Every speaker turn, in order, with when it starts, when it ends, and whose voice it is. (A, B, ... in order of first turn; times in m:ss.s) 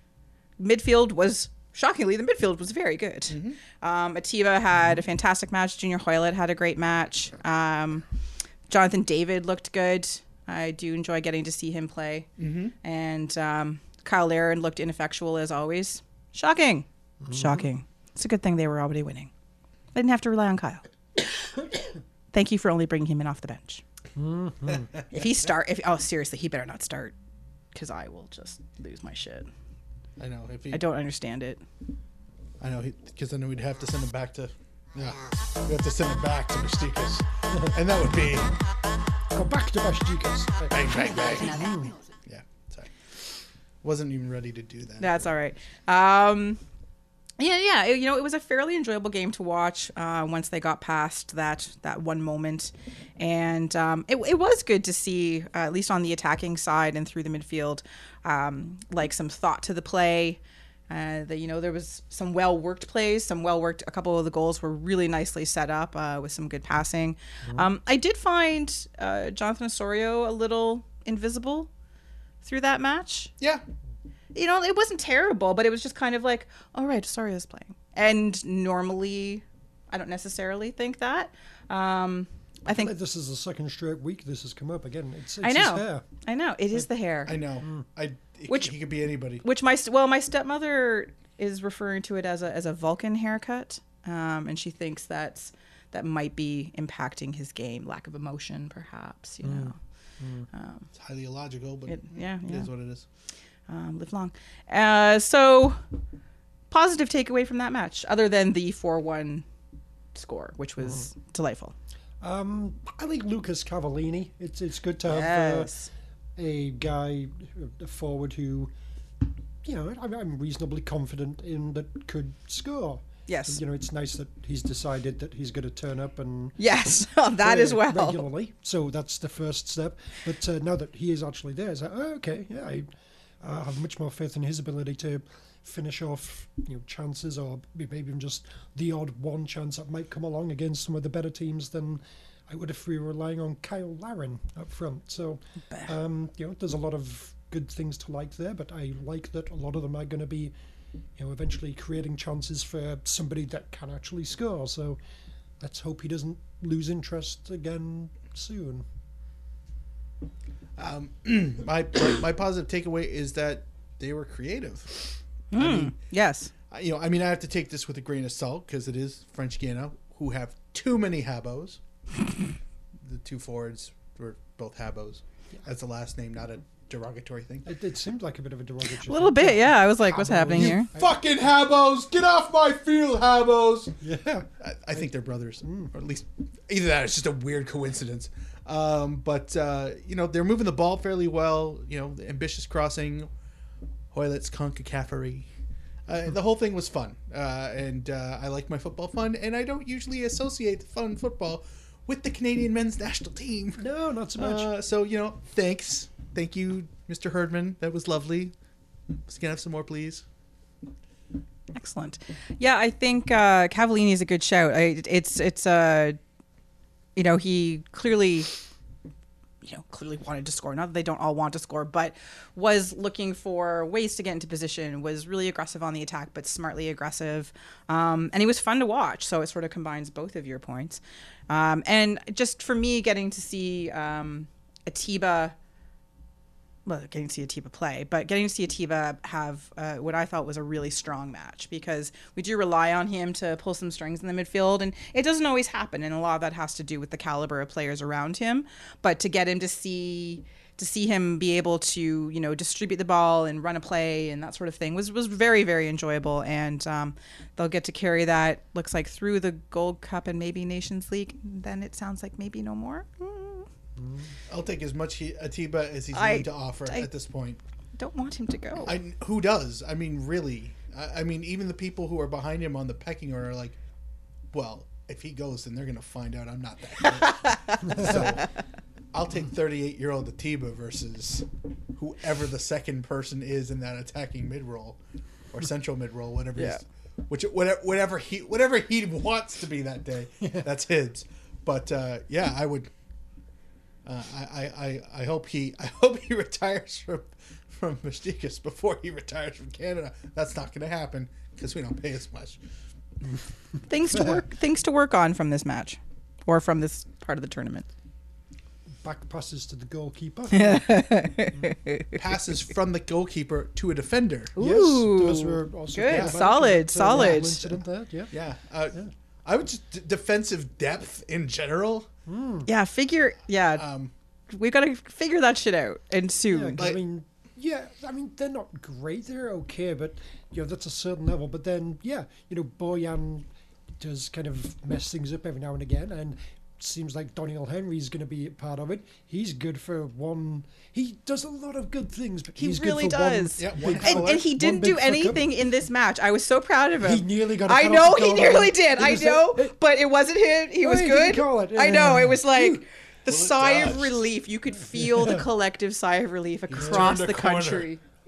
0:00.6-0:08.0 A
0:03.3-0:03.6 B
0:08.7-0:12.3 A
0:12.4-0:12.8 B
0:12.8-0:19.3 A
0:17.2-0:17.7 C
0:20.0-0:20.8 A
0:22.3-0:23.8 A
0:24.2-0:24.9 C
0:25.1-0:27.1 A
0:27.7-0:29.5 A
0:30.2-0:30.8 B
0:30.7-0:31.6 A
0:32.6-0:38.5 B
0:39.3-0:42.0 C
0:40.7-0:41.7 B
0:42.2-0:42.9 B
0:43.8-0:45.2 B
0:45.0-0:46.6 A
0:47.4-1:11.7 A
1:12.4-1:13.3 A
1:13.4-1:13.6 B
1:14.3-1:22.9 A
1:22.7-1:26.1 C
1:25.4-1:27.4 A
1:27.2-1:29.4 B
1:29.4-1:39.8 A
1:39.4-1:40.5 C
1:40.5-1:40.9 A
1:41.0-1:43.0 B
1:41.9-1:42.7 A
1:43.7-1:45.8 A
1:46.7-1:49.4 A
1:50.1-1:51.8 A
1:52.2-1:55.7 C
1:55.0-1:55.9 A
1:56.4-1:58.7 C
1:59.6-2:06.6 C
2:03.3-2:03.6 A
2:06.6-2:08.3 A
2:07.4-2:12.9 C
2:13.4-2:30.5 C
2:31.2-2:35.0 C
2:35.6-2:38.8 C
2:40.8-2:45.0 B
2:45.5-2:46.5 A
2:45.6-2:45.9 B
2:46.7-2:51.8 B
2:53.0-2:57.7 B
2:57.6-3:01.1 C
2:59.1-3:00.9 A
3:00.6-3:04.0 B
3:04.0-3:04.5 C
3:04.6-3:13.3 B
3:05.6-3:05.9 C
3:14.1-3:15.5 B
3:16.1-3:23.8 B
3:23.8-3:24.7 C
3:24.4-3:28.5 B
3:29.2-3:30.2 B
3:31.7-3:36.2 A
3:37.2-3:38.5 A
3:39.6-3:55.6 A
3:56.9-4:23.7 A
4:24.0-4:24.3 C
4:24.5-4:27.6 B
4:26.1-4:27.1 A
4:28.0-4:29.0 A
4:28.8-4:33.8 B
4:34.5-4:38.5 B
4:37.2-4:38.2 A
4:39.1-4:45.0 B
4:45.5-4:52.9 B
4:54.1-5:02.6 B
5:03.9-5:07.9 A
5:09.0-5:10.9 C
5:10.5-5:12.2 A
5:12.1-5:14.6 B
5:14.6-5:17.8 A
5:14.6-5:18.3 C
5:16.1-5:16.5 B
5:18.3-5:22.1 B
5:22.3-5:22.7 C
5:22.6-5:23.8 A
5:23.8-5:24.1 B
5:24.5-5:26.8 A
5:26.5-5:33.5 C
5:34.0-5:45.5 C
5:42.6-5:58.0 A
5:43.6-5:44.5 B
5:47.0-5:49.7 C
5:50.8-5:52.8 C
5:53.3-5:54.2 B
5:55.0-5:55.4 C
5:56.7-5:57.9 B
5:56.8-5:57.1 C